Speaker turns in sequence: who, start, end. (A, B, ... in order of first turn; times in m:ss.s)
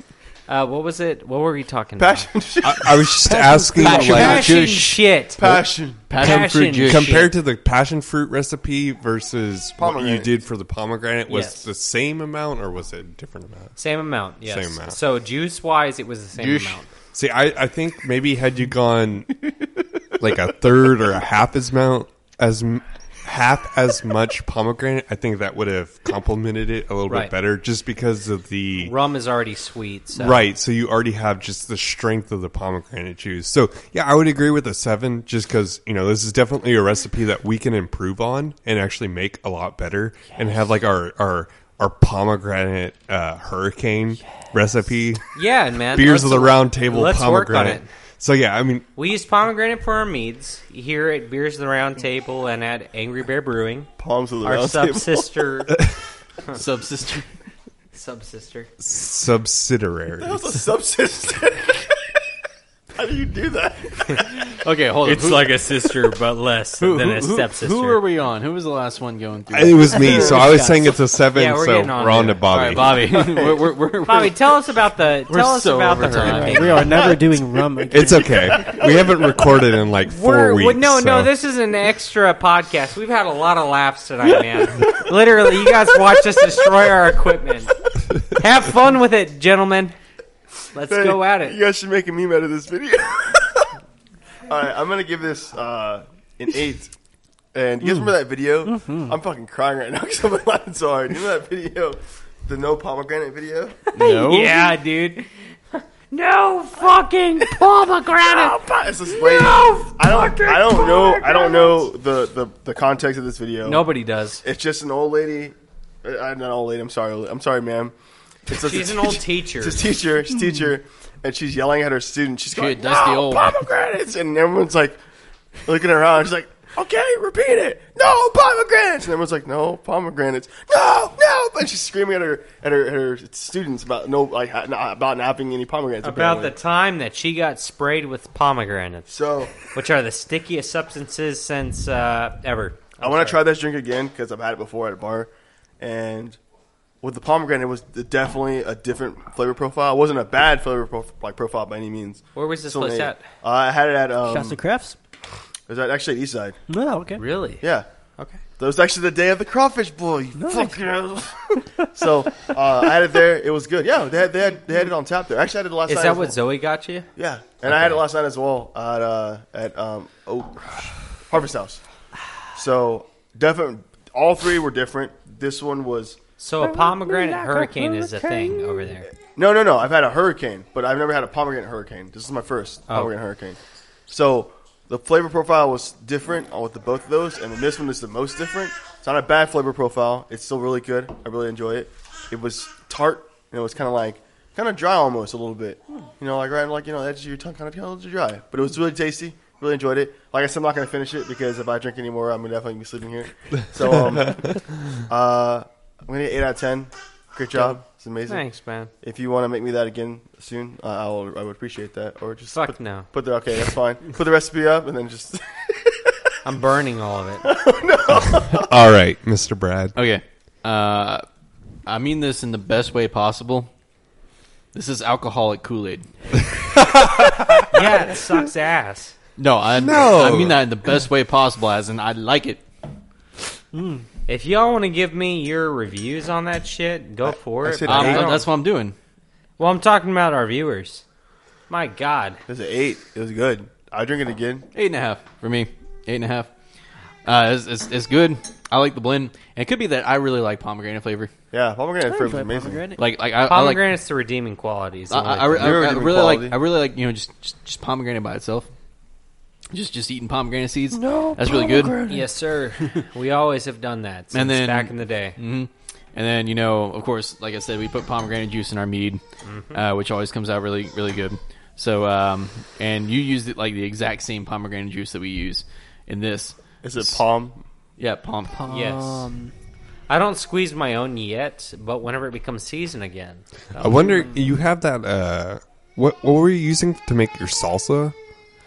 0:00.5-0:02.3 A
0:02.0-0:03.2 B
0:02.6-0:04.5 C
0:03.2-0:04.5 D
0:03.8-0:05.6 A
0:03.8-0:05.0 E
0:05.4-0:06.2 B
0:06.1-0:07.3 E
0:06.2-0:07.3 A
0:06.2-0:13.8 C
0:09.8-0:10.3 B
0:11.3-0:11.6 A
0:13.8-0:16.9 A
0:14.4-0:15.0 C
0:16.4-0:16.8 E
0:17.1-0:19.4 C
0:20.2-0:28.9 C
0:28.8-0:30.4 A
0:30.2-0:45.3 C
0:45.4-0:47.9 A
0:45.9-0:48.9 C
0:49.0-0:53.9 A
0:54.0-0:55.5 B
0:54.4-0:55.8 A
0:56.5-0:57.3 E
0:57.9-0:58.7 A
0:58.8-1:00.6 C
1:00.2-1:02.0 B
1:02.9-1:04.6 B
1:04.6-1:05.6 E
1:05.0-1:08.0 A
1:06.8-1:10.5 E
1:09.5-1:13.1 C
1:09.9-1:10.8 D
1:11.3-1:12.4 A
1:12.5-1:14.5 E
1:12.9-1:13.7 B
1:14.1-1:17.1 A
1:15.3-1:17.1 E
1:16.3-1:18.8 D
1:17.9-1:21.3 C
1:20.1-1:30.0 A
1:30.7-1:31.6 A
1:30.8-1:33.7 B
1:34.5-1:36.9 B
1:37.5-1:43.9 B
1:38.7-1:39.2 D
1:43.9-1:51.8 A
1:44.0-1:44.7 E
1:48.2-1:53.9 B
1:53.6-1:54.4 A
1:54.4-1:57.9 B
1:58.5-2:05.0 B
1:58.5-1:59.8 A
2:02.6-2:03.6 E
2:05.6-2:16.6 B
2:16.0-2:23.4 A
2:19.1-2:19.7 B
2:23.0-2:26.4 B
2:27.0-2:34.6 B
2:32.4-2:33.3 A
2:34.2-2:35.0 D
2:35.7-2:36.6 B
2:36.7-2:37.2 D
2:37.2-2:37.6 A
2:37.6-2:37.9 B
2:38.2-2:38.4 A
2:38.6-2:46.4 B
2:40.4-2:40.9 D
2:45.9-2:47.1 A
2:47.2-2:51.8 B
2:47.6-2:48.0 A
2:52.6-2:56.2 B
2:56.4-2:59.1 A
2:56.6-2:58.8 D
2:59.4-3:28.5 B
3:28.3-3:28.9 A
3:29.0-3:36.1 B
3:32.5-3:33.1 A
3:36.4-3:37.4 A
3:37.4-3:38.8 B
3:38.5-3:40.0 C
3:40.0-3:41.2 E
3:41.9-3:43.7 E
3:44.7-3:46.4 E
3:46.8-3:47.6 C
3:47.6-3:49.2 A
3:49.4-3:52.6 E
3:49.8-3:50.6 C
3:53.7-3:54.1 D
3:54.3-3:58.4 A
3:57.3-3:58.5 B
3:57.8-3:59.0 E
3:59.6-4:01.0 A
4:01.7-4:02.4 A
4:02.5-4:04.7 B
4:04.8-4:06.5 E
4:07.2-4:11.3 E
4:11.5-4:12.8 B
4:12.0-4:13.0 D
4:13.0-4:13.9 E
4:13.4-4:15.7 A
4:15.1-4:18.7 E
4:15.4-4:16.6 B
4:19.7-4:22.0 E
4:20.9-4:22.3 D
4:22.1-4:25.4 A
4:24.3-4:29.2 E
4:29.4-4:29.8 A
4:29.7-4:37.2 E
4:36.8-4:37.6 B
4:38.0-4:38.6 E
4:38.5-4:39.5 D
4:38.7-4:39.3 A
4:40.1-4:44.3 A
4:43.8-4:48.2 C